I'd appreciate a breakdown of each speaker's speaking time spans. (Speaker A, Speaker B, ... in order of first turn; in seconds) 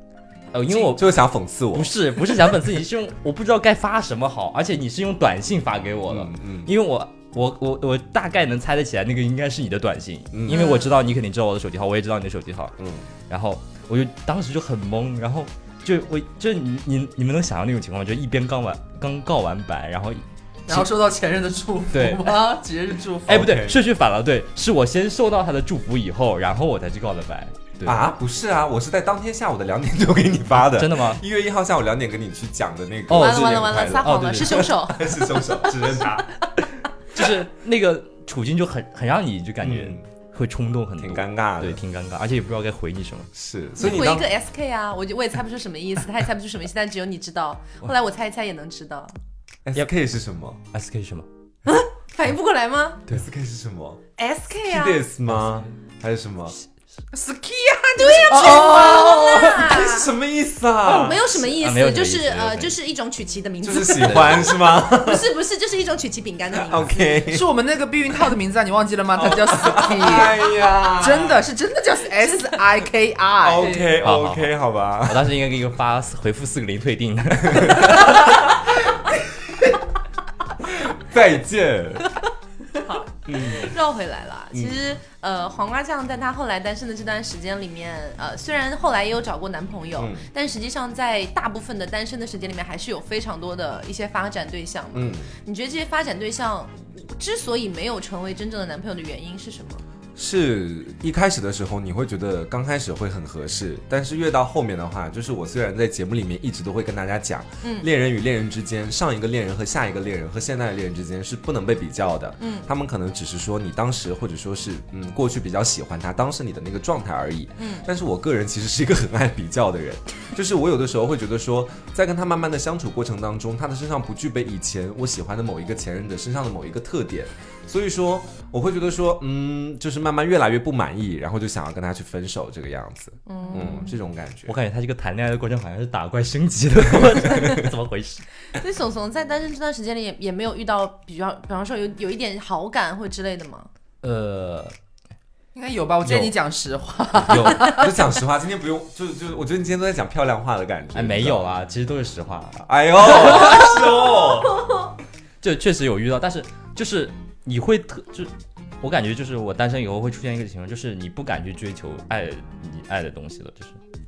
Speaker A: 0.5-1.2, 1.7-12.8, 13.3-20.9, 21.9-22.4, 23.3-28.0, 30.7-31.2, 33.1-34.8, 37.1-43.3, 50.7-51.3, 55.4-55.6, 58.4-59.3, 61.4-62.7, 64.0-64.5, 74.0-74.5, 75.1-78.4, 134.5-138.2, 144.0-144.7, 150.9-153.6, 155.4-163.8
Speaker B: 0.9-1.9, 6.1-6.7, 10.3-10.7, 12.8-13.1, 23.3-23.8, 27.9-36.3, 39.6-40.0, 41.0-41.8, 43.3-44.3, 49.6-50.6, 53.1-54.0, 54.7-56.6, 58.5-61.5, 63.6-65.3, 66.6-67.5, 69.2-71.4, 73.4-75.3, 77.5-78.1, 80.8-82.1, 83.3-83.7, 90.0-90.2, 94.9-95.3, 100.2-134.5, 146.0-146.3, 147.2-151.4, 152.6-154.6
Speaker C: 10.5-10.9, 33.1-35.8, 43.8-49.1, 51.7-53.0, 54.2-55.0, 58.0-60.1, 60.8-67.3, 72.2-72.7, 73.6-73.9, 82.8-99.8, 107.6-107.9, 112.4-112.7, 117.6-117.9, 133.3-133.9, 138.5-143.7, 153.4-153.8, 154.5-154.9
Speaker D: 20.7-23.5, 57.1-58.9, 67.3-70.4, 70.9-73.9, 145.6-147.9